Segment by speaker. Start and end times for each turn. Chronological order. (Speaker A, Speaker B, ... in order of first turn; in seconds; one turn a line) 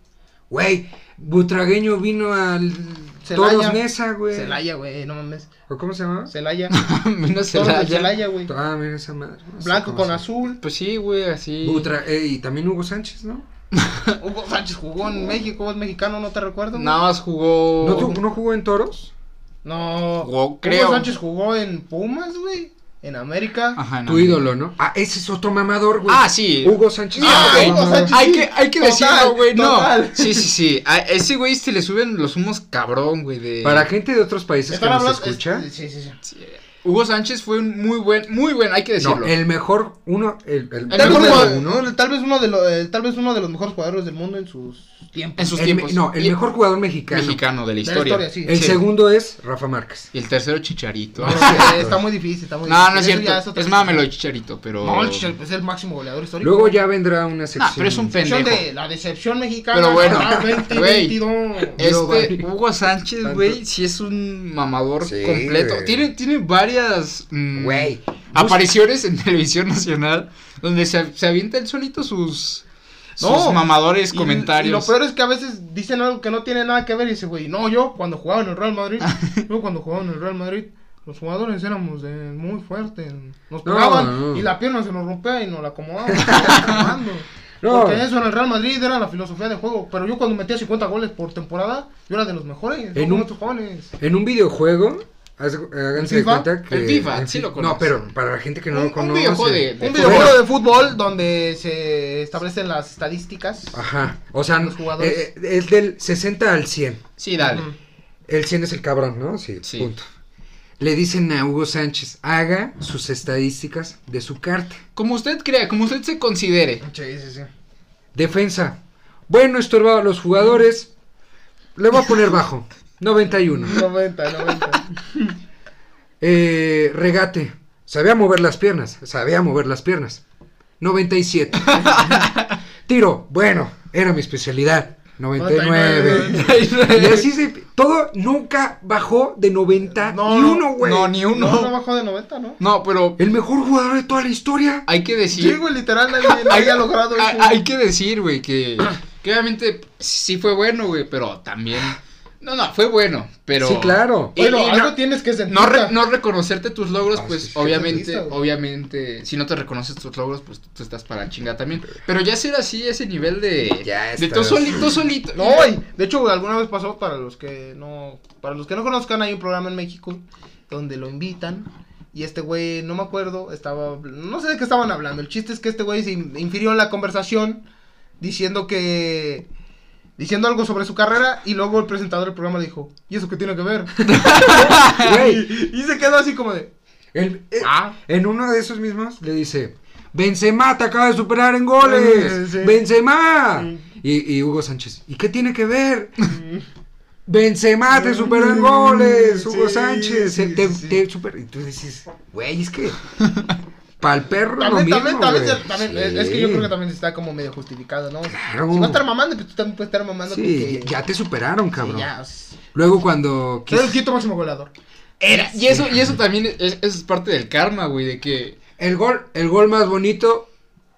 Speaker A: 0.5-4.6
Speaker B: 3.2-5.5
Speaker A: 5.7-6.3
Speaker B: 6.3-6.8
Speaker C: 6.7-8.1
Speaker B: 7.5-8.5
Speaker A: 8.5-10.2
Speaker B: 9.6-10.6
Speaker C: 10.6-11.9
Speaker A: 11.6-13.5
Speaker C: 13.7-14.2
Speaker B: 14.2-17.0
Speaker C: 16.8-18.2
Speaker A: 17.8-19.1
Speaker B: 17.9-18.2
Speaker B: 19.6-23.8
Speaker C: 20.2-21.1
Speaker C: 23.8-24.4
Speaker A: 24.1-28.2
Speaker C: 26.1-33.9
Speaker B: 27.2-30.5
Speaker A: 33.6-35.7
Speaker B: 34.7-36.2
Speaker C: 36.3-39.3
Speaker A: 39.0-41.9
Speaker C: 40.9-41.5
Speaker B: 40.9-45.6
Speaker C: 45.4-46.4
Speaker A: 45.6-47.4
Speaker C: 47.1-48.8
Speaker B: 47.8-48.6
Speaker A: 48.5-50.1
Speaker C: 50.1-51.9
Speaker A: 51.2-52.0
Speaker B: 51.2-54.1
Speaker C: 52.6-55.3
Speaker B: 54.8-56.8
Speaker A: 56.4-58.1
Speaker C: 57.6-58.6
Speaker B: 58.2-61.8
Speaker C: 59.7-61.2
Speaker A: 60.0-60.6
Speaker A: 61.7-62.5
Speaker C: 61.8-72.6
Speaker A: 63.2-63.6
Speaker A: 65.0-66.0
Speaker A: 67.5-68.6
Speaker C: 73.2-74.9
Speaker B: 73.2-93.9
Speaker C: 79.1-79.4
Speaker A: 83.7-84.5
Speaker A: 86.1-86.8
Speaker C: 86.2-86.8
Speaker A: 87.6-88.0
Speaker A: 93.0-93.3
Speaker A: 94.0-100.4
Speaker B: 96.0-96.5
Speaker C: 96.7-98.1
Speaker C: 98.7-100.4
Speaker B: 99.8-103.8
Speaker A: 103.7-107.0
Speaker B: 104.6-105.2
Speaker C: 107.2-107.7
Speaker B: 107.4-107.8
Speaker A: 108.3-110.1
Speaker C: 109.6-109.9
Speaker A: 110.8-114.8
Speaker C: 115.0-116.8
Speaker B: 116.8-117.5
Speaker A: 118.1-120.9
Speaker A: 121.8-123.9
Speaker B: 123.6-125.3
Speaker A: 126.2-130.2
Speaker A: 130.8-132.3
Speaker C: 131.6-132.6
Speaker A: 132.9-141.1
Speaker B: 135.4-136.6
Speaker C: 136.1-137.3
Speaker B: 140.1-142.6
Speaker C: 140.8-141.7
Speaker C: 142.6-143.2
Speaker A: 143.2-144.9
Speaker C: 144.9-145.6
Speaker B: 145.3-147.6
Speaker C: 146.2-154.9
Speaker A: 153.6-154.3
Speaker B: 154.4-156.0
Speaker C: 155.5-165.8
Speaker A: 157.2-157.9
Speaker B: 157.6-158.4
Speaker A: 163.8-165.0
Speaker B: 165.4-177.6
Speaker B: 178.2-179.5
Speaker B: 180.2-186.7
Speaker C: 184.1-185.1
Speaker A: 184.2-185.5
Speaker A: 187.1-196.2
Speaker B: 187.6-188.0
Speaker B: 191.8-192.8
Speaker B: 193.6-193.8
Speaker B: 196.2-196.7
Speaker A: 197.3-203.0
Speaker B: 197.9-201.0
Speaker A: 204.0-206.7
Speaker B: 204.6-210.9
Speaker A: 208.3-209.0
Speaker A: 210.3-212.1
Speaker B: 211.8-212.6
Speaker A: 212.7-214.0
Speaker B: 213.7-214.7
Speaker C: 215.2-218.6
Speaker B: 215.3-215.6
Speaker A: 215.7-216.1
Speaker A: 218.8-220.5